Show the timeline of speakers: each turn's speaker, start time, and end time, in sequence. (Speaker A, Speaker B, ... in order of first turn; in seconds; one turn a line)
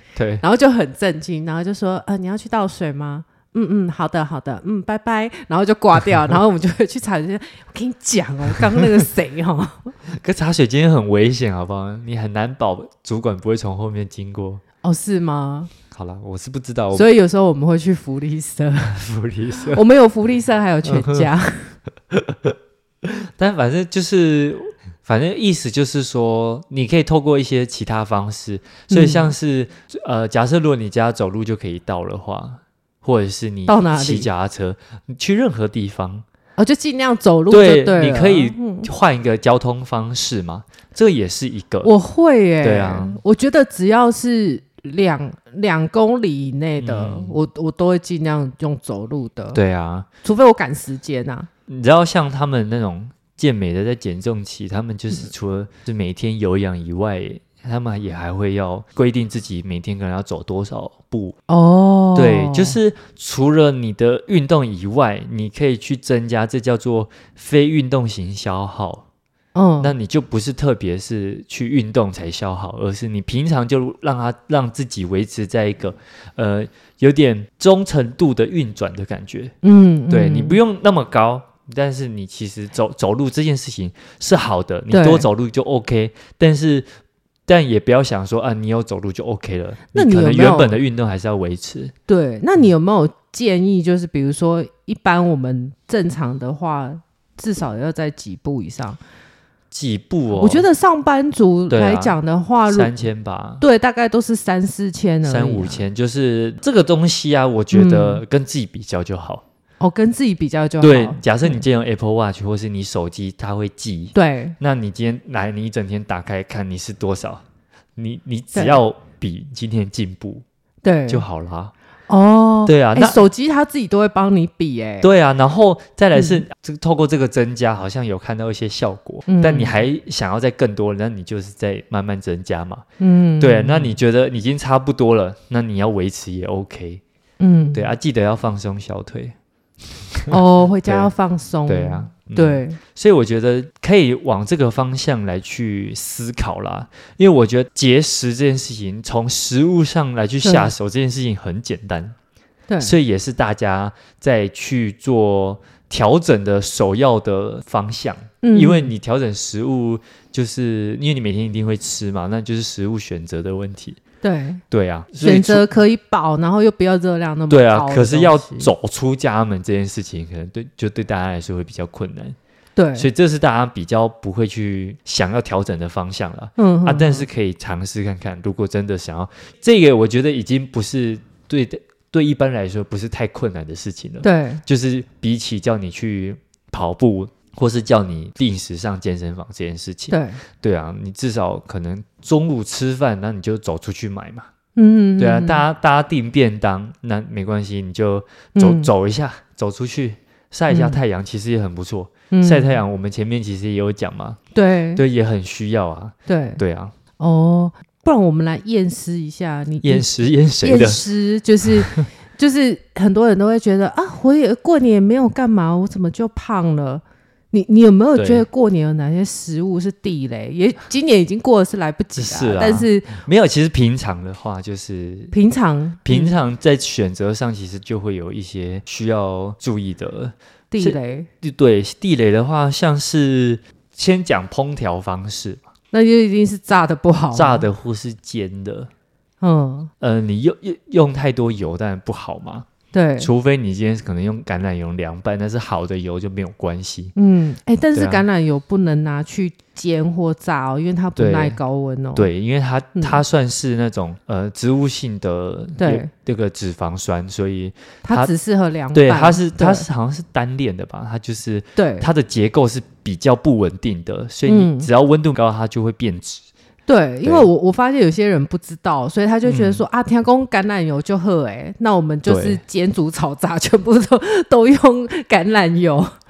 Speaker A: 0.2-0.4
Speaker B: 0.4-9.9
Speaker A: 10.1-14.6
Speaker B: 14.8-15.7
Speaker A: 15.9-17.1
Speaker B: 16.9-19.0
Speaker A: 18.9-19.8
Speaker B: 19.7-21.8
Speaker A: 20.9-21.3
Speaker A: 22.1-36.2
Speaker B: 28.9-29.3
Speaker B: 33.7-34.3
Speaker B: 36.6-38.9
Speaker A: 37.5-41.9
Speaker B: 41.8-49.6
Speaker A: 42.6-43.2
Speaker A: 46.8-47.4
Speaker A: 49.5-50.1
Speaker B: 50.2-51.5
Speaker A: 51.7-61.4
Speaker B: 61.5-62.8
Speaker A: 62.1-69.0
Speaker B: 69.5-69.9
Speaker A: 69.8-79.5
Speaker B: 79.6-80.6
Speaker A: 80.1-86.9
Speaker B: 84.9-85.3
Speaker A: 87.5-91.9
Speaker B: 89.9-90.8
Speaker B: 92.1-99.0
Speaker A: 99.7-100.7
Speaker B: 100.3-102.9
Speaker A: 101.7-102.2
Speaker A: 102.7-103.6
Speaker B: 103.6-105.8
Speaker A: 105.3-109.4
Speaker B: 107.7-108.2
Speaker B: 109.8-111.6
Speaker A: 110.8-117.4
Speaker B: 114.1-114.6
Speaker A: 118.0-120.4
Speaker B: 120.8-121.2
Speaker A: 121.1-121.7
Speaker B: 122.1-125.1
Speaker A: 122.7-123.2
Speaker A: 125.0-132.8
Speaker B: 126.2-126.4
Speaker B: 129.3-129.8
Speaker B: 133.0-133.9
Speaker A: 133.4-137.0
Speaker B: 137.4-137.9
Speaker A: 137.7-139.3
Speaker A: 140.2-141.1
Speaker B: 140.3-142.8
Speaker A: 141.7-152.2
Speaker B: 150.4-150.7
Speaker B: 152.7-152.9
Speaker A: 152.8-164.0
Speaker B: 158.4-158.9
Speaker B: 164.2-164.6
Speaker A: 164.7-165.7
Speaker B: 165.2-168.7
Speaker A: 167.5-172.4
Speaker B: 172.8-173.1
Speaker A: 173.0-194.5
Speaker B: 176.6-177.3
Speaker B: 184.2-184.6
Speaker B: 190.1-190.4
Speaker B: 194.8-195.6
Speaker A: 195.2-204.4
Speaker B: 198.6-198.9
Speaker B: 200.7-201.0
Speaker B: 202.3-202.8
Speaker B: 204.5-205.0
Speaker A: 205.0-206.9
Speaker B: 206.3-206.6
Speaker B: 207.2-210.1
Speaker A: 209.8-211.0
Speaker B: 210.6-223.1
Speaker A: 218.2-218.5
Speaker A: 222.2-225.3
Speaker B: 225.3-226.3
Speaker A: 226.1-235.6
Speaker B: 230.7-231.3
Speaker B: 235.9-237.7
Speaker A: 237.3-238.9
Speaker B: 239.4-239.9
Speaker A: 240.0-242.7
Speaker B: 242.9-243.3
Speaker A: 243.2-247.1
Speaker B: 247.2-252.3
Speaker A: 247.9-248.2
Speaker A: 251.2-251.6
Speaker A: 252.2-258.3
Speaker B: 252.9-253.2
Speaker B: 255.8-256.1
Speaker B: 258.0-259.9
Speaker A: 258.9-266.4
Speaker B: 261.8-262.1
Speaker B: 264.5-264.9
Speaker B: 266.9-276.1
Speaker A: 269.4-269.8
Speaker A: 272.3-272.6